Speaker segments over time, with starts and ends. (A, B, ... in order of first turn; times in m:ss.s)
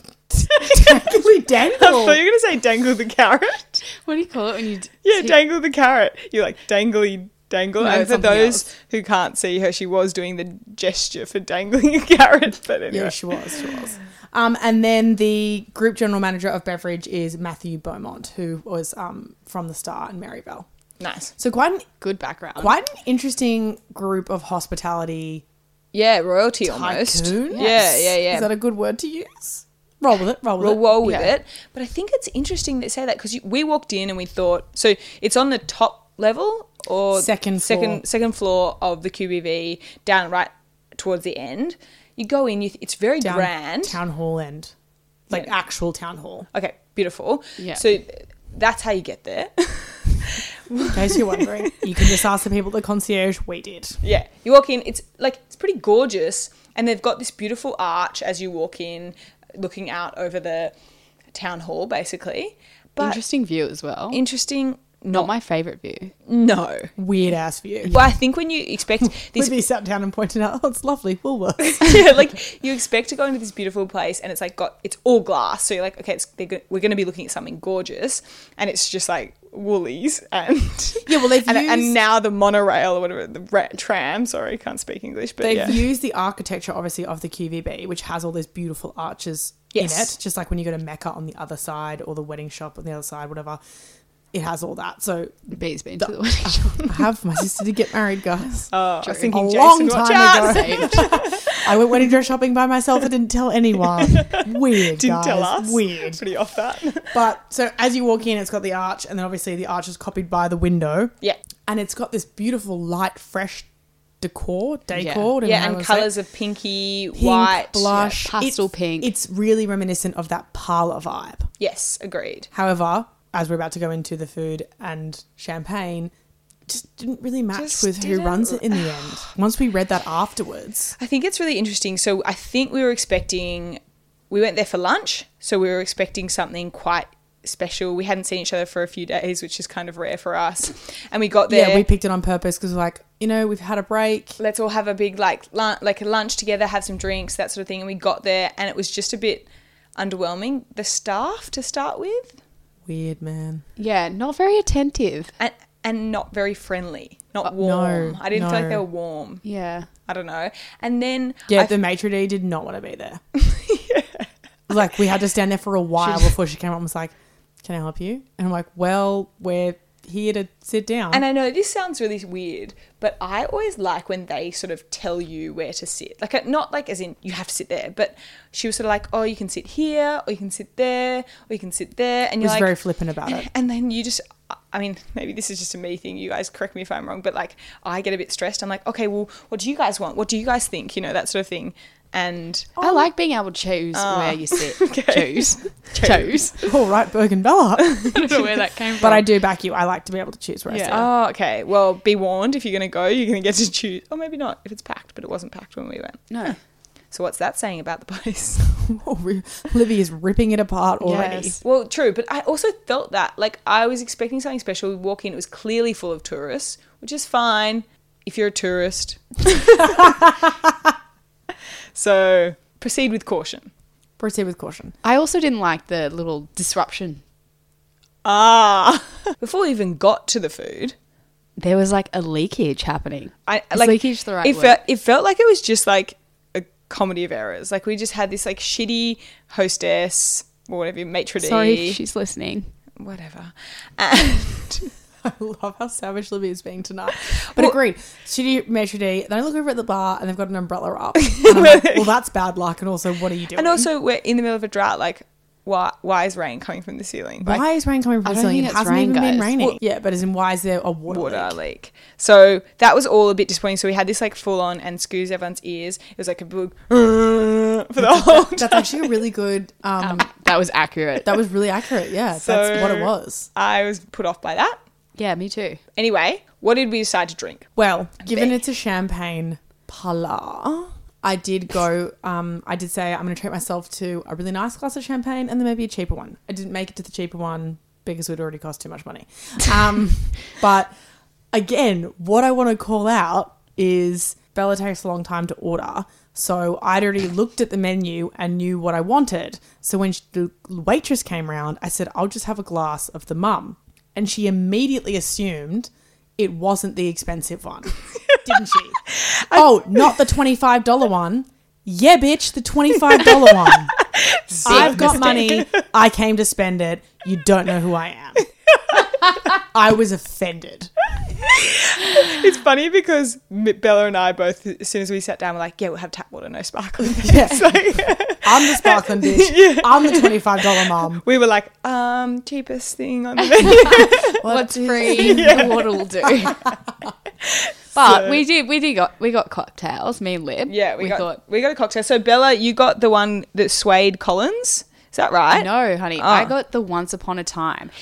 0:00.5-0:01.1 A
0:00.6-0:02.2 B
0:01.7-0:03.8 A
0:03.9-0:05.4 C
0:05.0-0:13.9 A
0:07.8-0:08.6 C
0:12.9-0:20.7 B
0:21.0-0:21.3 A
0:21.4-0:21.9 B
0:22.0-0:22.7 C
0:22.6-0:25.4 B
0:25.9-0:28.5 A
0:26.6-0:30.8 B
0:27.5-0:27.9 C
0:30.6-0:44.0 A
0:31.0-0:31.3 C
0:37.2-0:38.0 B
0:43.2-0:44.7 B
0:45.3-0:46.5 B
0:46.5-0:52.1 A
0:47.6-0:47.8 C
0:50.9-0:54.0 B
0:54.0-1:00.7 A
1:01.3-1:03.2 A
1:03.0-1:04.2 C
1:04.1-1:05.3 A
1:05.1-1:06.1 C
1:06.3-1:06.9 A
1:07.0-1:08.0 B
1:07.9-1:09.6 A
1:09.0-1:12.3 B
1:11.7-1:25.8 A
1:21.0-1:21.9 B
1:25.4-1:33.6 B
1:29.7-1:30.1 A
1:34.3-1:46.2 B
1:35.5-1:37.0 C
1:38.7-1:41.7 A
1:40.3-1:41.2 C
1:44.1-1:47.2 A
1:47.1-1:51.1 B
1:51.7-1:53.7 B
1:54.2-1:56.1 B
1:54.9-1:55.3 C
1:55.4-1:58.2 A
1:57.1-2:01.5 B
1:58.0-1:59.1 C
2:01.6-2:02.5 A
2:02.5-2:06.1 B
2:06.7-2:11.0 B
2:07.6-2:09.3 A
2:11.0-2:21.9 A
2:21.5-2:24.4 B
2:24.4-2:32.4 A
2:32.9-2:33.6 B
2:33.8-2:35.3 C
2:35.4-2:39.4 A
2:37.4-2:38.8 B
2:39.4-2:39.9 C
2:40.1-2:41.7 A
2:41.5-2:43.2 B
2:43.4-2:44.3 A
2:44.7-2:47.1 B
2:46.0-2:46.3 C
2:47.6-2:51.2 B
2:51.1-3:02.7 A
3:02.4-3:03.5 B
3:03.2-3:12.8 A
3:12.8-3:13.0 B
3:12.8-3:16.6 C
3:13.9-3:16.8 A
3:16.7-3:18.4 B
3:17.8-3:18.4 A
3:18.1-3:19.3 C
3:19.0-3:21.1 B
3:20.7-3:21.0 C
3:20.9-3:26.6 A
3:26.3-3:26.6 C
3:27.1-3:29.0 A
3:28.9-3:31.6 B
3:31.0-3:31.6 C
3:31.6-3:40.1 A
3:41.9-3:43.7 A
3:44.2-3:45.0 B
3:45.0-3:47.2 C
3:48.2-3:51.0 A
3:51.6-3:54.8 C
3:53.5-4:02.0 A
4:01.4-4:02.7 C
4:03.0-4:04.9 A
4:05.2-4:13.9 B
4:07.3-4:07.8 A
4:11.2-4:12.1 A
4:13.5-4:17.6 A
4:17.4-4:21.6 B
4:18.2-4:19.6 C
4:21.1-4:29.1 A
4:28.0-4:30.3 B
4:30.0-4:31.4 C
4:31.2-4:33.5 B
4:32.4-4:34.8 A
4:35.2-4:35.8 C
4:36.0-4:37.7 A
4:37.8-4:50.9 B
4:38.2-4:38.6 A
4:51.5-5:14.0 B
5:08.3-5:10.2 A
5:14.0-5:15.8 A
5:14.5-5:18.4 B
5:14.7-5:15.4 C
5:19.5-5:20.9 B
5:21.4-5:34.4 A
5:27.0-5:31.2 B
5:33.6-5:36.6 C
5:34.3-5:35.7 B
5:35.0-5:36.5 A
5:37.4-5:38.4 A
5:37.9-5:41.4 C
5:40.7-5:46.5 A
5:45.5-5:47.9 C